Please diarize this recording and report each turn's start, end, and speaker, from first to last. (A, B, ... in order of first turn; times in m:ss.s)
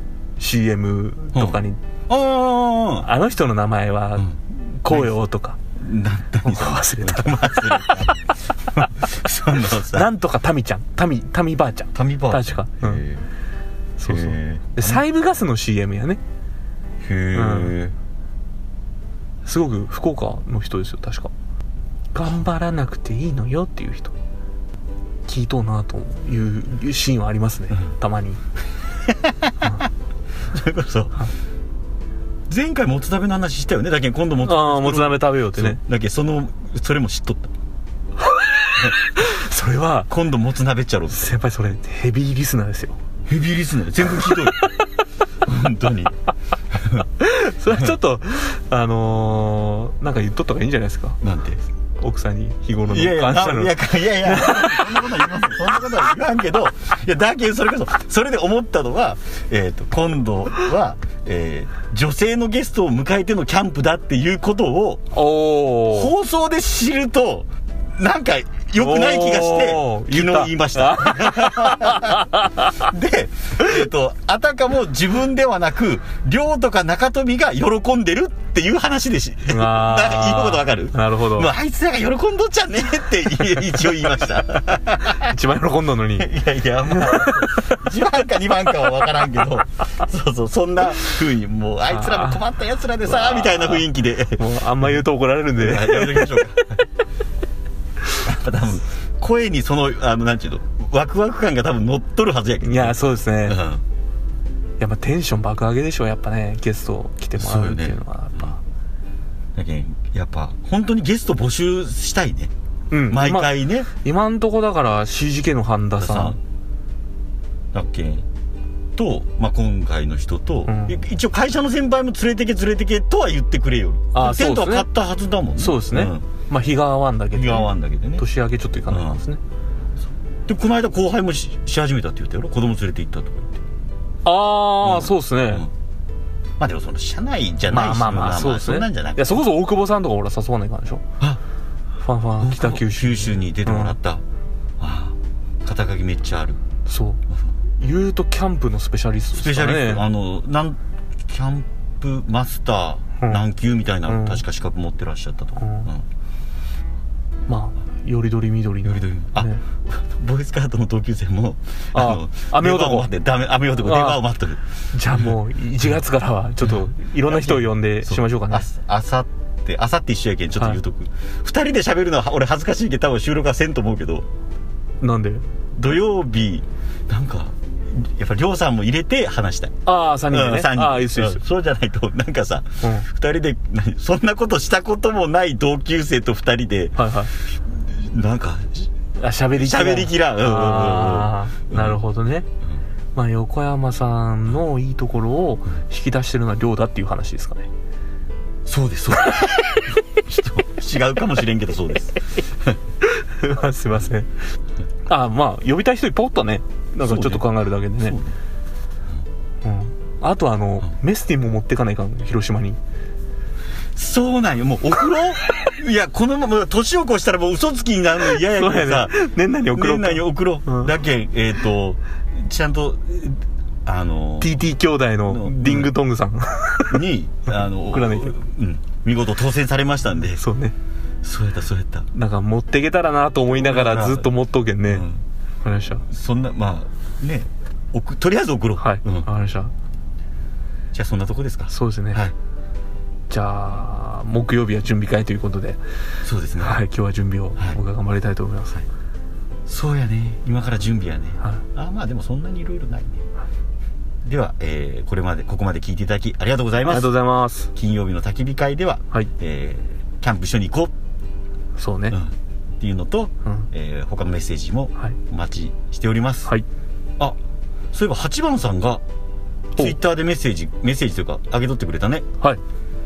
0:00.4-0:01.8 A
0:01.3-0:03.1 B
0:03.0-0:05.6 A
0:04.9-0:05.1 B
0:05.8-0:10.1 B
0:06.4-0:08.1 A
0:09.9-0:13.0 A
0:11.9-0:13.2 B
0:14.0-0:16.2 A
0:14.0-0:15.0 B
0:17.0-0:17.9 B
0:17.3-0:17.8 A
0:19.4-0:21.3 A
0:22.1-0:24.1 A
0:25.2-0:28.4 A
0:29.1-0:29.5 B
0:30.5-0:31.2 B
0:32.5-0:37.5 B
0:34.4-0:35.8 A
0:38.2-0:40.1 A
0:40.1-0:41.4 B
0:41.1-0:43.0 A
0:43.3-0:44.6 B
0:44.0-0:44.7 A
0:45.4-0:46.1 B
0:46.7-0:47.0 B
0:47.2-0:51.2 A
0:51.2-0:51.6 B
0:52.0-0:55.0 A
0:52.8-1:05.1 B
1:05.1-1:06.1 A
1:05.9-1:25.3 B
1:08.8-1:12.8 A
1:19.5-1:21.5 A
1:25.1-1:26.3 A
1:26.2-1:34.4 B
1:26.9-1:27.7 A
1:31.9-1:32.4 A
1:33.0-1:36.6 A
1:35.6-1:36.6 B
1:38.2-1:43.8 B
1:42.6-1:43.6 A
1:44.8-1:48.6 A
1:47.3-1:48.5 B
1:49.5-1:52.5 B
1:52.9-1:56.4 A
1:53.1-1:53.9 B
1:56.0-1:56.4 B
1:57.7-1:58.2 B
1:59.0-2:06.2 B
2:00.7-2:01.0 A
2:04.1-2:04.8 A
2:05.6-2:09.4 A
2:07.3-2:08.2 B
2:08.9-2:09.2 B
2:10.5-2:13.6 B
2:14.2-2:15.6 A
2:14.8-2:15.7 B
2:16.6-2:19.4 B
2:17.7-2:21.0 A
2:22.0-2:24.0 A
2:22.4-2:24.2 B
2:24.8-2:26.6 B
2:26.8-2:27.2 A
2:27.8-2:30.0 A
2:29.3-2:36.0 B
2:34.1-2:34.4 A
2:35.6-2:35.9 A
2:37.5-2:39.6 A
2:38.8-2:44.6 B
2:41.9-2:43.1 A
2:43.8-2:44.2 A
2:44.9-2:48.7 A
2:46.6-2:54.2 B
2:55.0-2:55.4 A
2:55.8-2:59.7 B
2:59.8-3:01.4 A
3:00.3-3:08.9 B
3:02.8-3:03.1 A
3:07.0-3:07.3 A
3:09.2-3:12.5 A
3:09.5-3:12.0 B
3:13.1-3:17.7 A
3:18.6-3:22.8 B
3:23.1-3:24.3 A
3:25.0-3:28.2 A
3:27.0-3:27.4 B
3:28.0-3:28.4 B
3:29.6-3:32.8 A
3:33.9-3:39.2 B
3:38.3-3:40.9 A
3:39.7-3:44.6 B
3:44.4-3:48.4 A
3:45.2-3:46.0 B
3:46.9-3:50.4 B
3:50.3-3:50.7 A
3:51.2-3:52.1 B
3:52.1-3:55.0 A
3:53.5-3:54.3 B
3:54.8-3:55.2 B
3:55.6-3:56.0 A
3:56.1-3:59.3 B
3:58.8-3:59.7 A
4:00.9-4:02.3 B
4:01.7-4:02.2 A
4:03.3-4:05.8 A
4:06.2-4:06.8 B
4:06.6-4:08.8 A
4:09.7-4:13.2 B
4:14.2-4:17.1 B
4:16.9-4:17.7 A
4:17.7-4:20.9 B
4:21.8-4:22.2 A
4:22.1-4:26.5 B
4:27.9-4:29.0 B
4:29.7-4:32.2 B